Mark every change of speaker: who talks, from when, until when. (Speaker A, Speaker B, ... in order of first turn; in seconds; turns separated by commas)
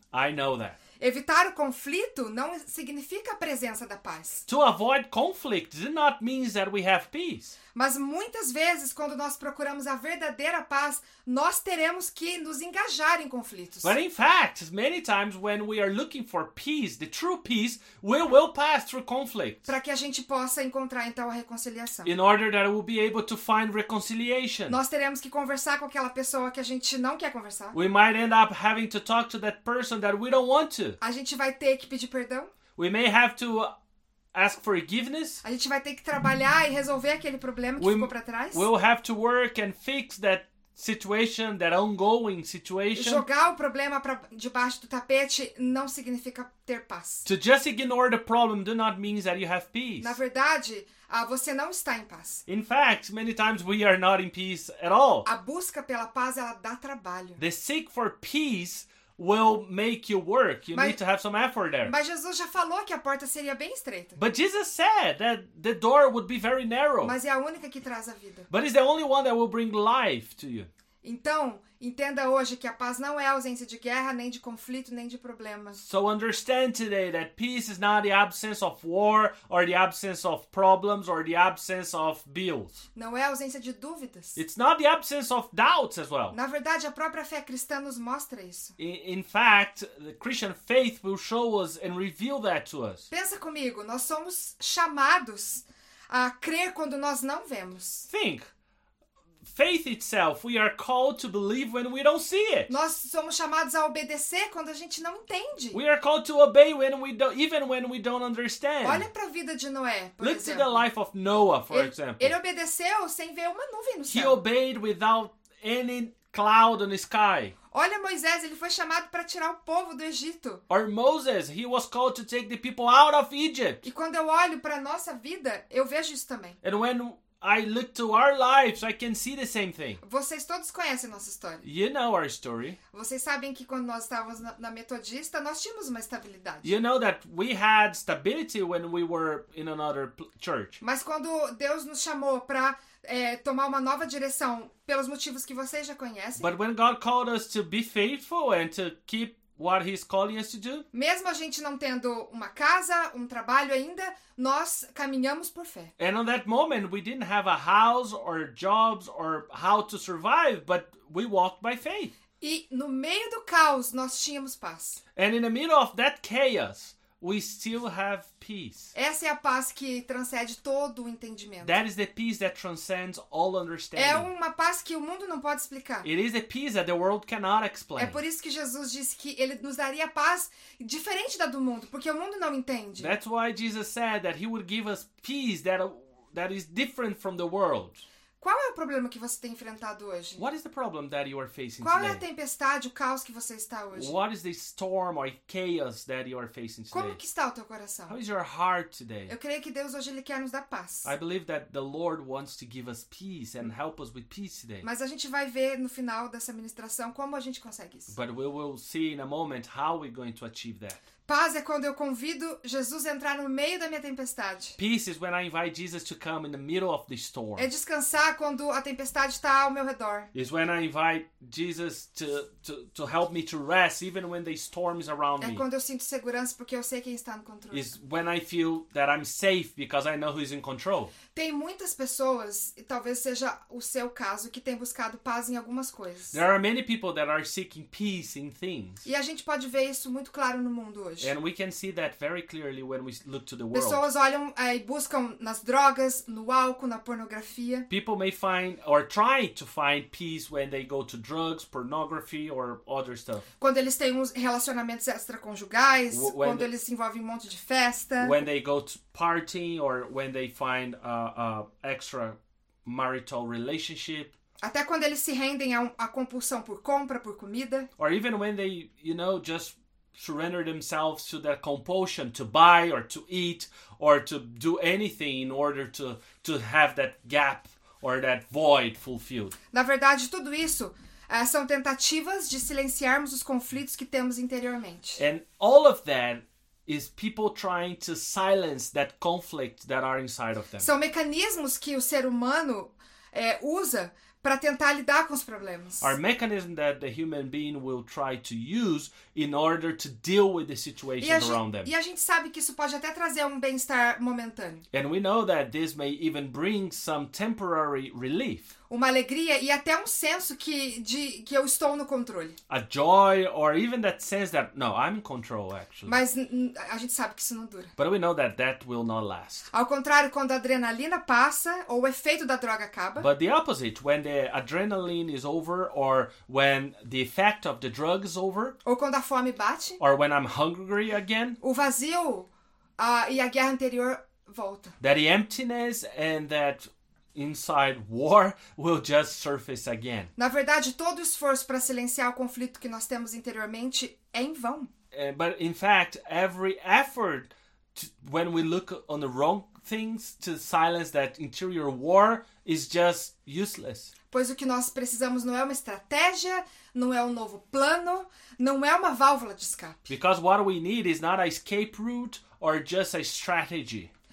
Speaker A: 0.1-0.8, Speaker B: 1.0-4.4, Speaker A: 4.5-7.5, Speaker B: 7.7-13.9, Speaker A: 13.8-19.7, Speaker B: 19.6-22.1, Speaker A: 22.0-24.8, Speaker B: 24.7-27.8, Speaker A: 27.7-31.0, Speaker B: 31.0-32.5, Speaker A: 32.8-33.7, Speaker A: 34.3-35.4, Speaker B: 35.4-38.7, Speaker A: 37.8-43.2, Speaker B: 42.9-47.3, Speaker A: 47.2-50.1, Speaker B: 50.0-52.4, Speaker A: 52.5-55.3, Speaker B: 55.2-57.4, Speaker A: 57.4-61.9, Speaker B: 61.8-64.2, Speaker A: 64.2-67.2, Speaker B: 67.0-68.5, Speaker A: 68.5-70.7, Speaker B: 71.0-75.8, Speaker A: 75.8-82.8, Speaker B: 83.0-84.4, Speaker A: 84.3-86.3, Speaker B: 86.3-88.8, Speaker A: 88.8-93.1, Speaker B: 93.1-98.1, Speaker A: 98.1-98.5, Speaker A: 99.4-102.7, Speaker B: 102.7-105.8, Speaker A: 105.7-109.1, Speaker B: 108.8-110.8, Speaker A: 110.2-112.3, Speaker B: 111.7-114.4, Speaker A: 114.1-117.5, Speaker B: 117.7-120.6, Speaker A: 120.7-123.8, Speaker B: 123.8-126.6, Speaker A: 126.6-130.0, Speaker B: 130.0-131.7, Speaker A: 131.6-132.8, Speaker B: 132.9-136.7, Speaker A: 136.6-140.8, Speaker B: 140.8-146.5, Speaker A: 146.4-150.8, Speaker B: 150.9-155.9, Speaker A: 156.0-162.1, Speaker B: 162.4-165.0, Speaker A: 165.2-168.9, Speaker B: 168.9-171.8, Speaker A: 171.6-174.3, Speaker B: 173.9-176.1, Speaker A: 176.0-178.2, Speaker B: 177.9-183.2, Speaker A: 183.0-188.0, Speaker B: 188.4-190.4, Speaker A: 190.4-192.2, Speaker B: 191.8-194.1, Speaker A: 193.9-197.2, Speaker B: 196.9-198.2, Speaker A: 198.1-199.3, Speaker B: 199.3-201.1, Speaker A: 201.0-204.9, Speaker B: 204.8-208.1, Speaker A: 208.1-211.0, Speaker B: 211.3-214.8, Speaker A: 214.8-217.7, Speaker B: 217.6-220.3, Speaker A: 220.3-225.6, Speaker B: 225.4-227.9, Speaker A: 227.7-231.1, Speaker B: 231.3-236.4, Speaker A: 236.3-239.0, Speaker B: 239.0-241.3, Speaker A: 241.2-244.0, Speaker B: 243.7-247.9, Speaker A: 247.9-253.5, Speaker B: 253.6-258.4, Speaker A: 256.1-256.7, Speaker A: 258.2-264.3, Speaker B: 264.6-267.9, Speaker A: 268.0-279.5, Speaker B: 279.7-285.2, Speaker A: 285.2-290.9, Speaker B: 290.8-296.1, Speaker A: 296.0-301.9, Speaker B: 301.2-304.8, Speaker A: 304.9-308.7, Speaker B: 308.9-312.6, Speaker A: 312.7-316.1, Speaker B: 316.0-317.9, Speaker A: 318.0-319.7, Speaker B: 319.7-323.3, Speaker A: 323.2-328.8, Speaker B: 328.8-330.0, Speaker A: 330.0-331.6, Speaker B: 331.6-334.9, Speaker A: 335.0-340.3, Speaker B: 340.4-344.9, Speaker A: 345.1-354.1, Speaker B: 354.3-360.1, Speaker A: 360.1-364.1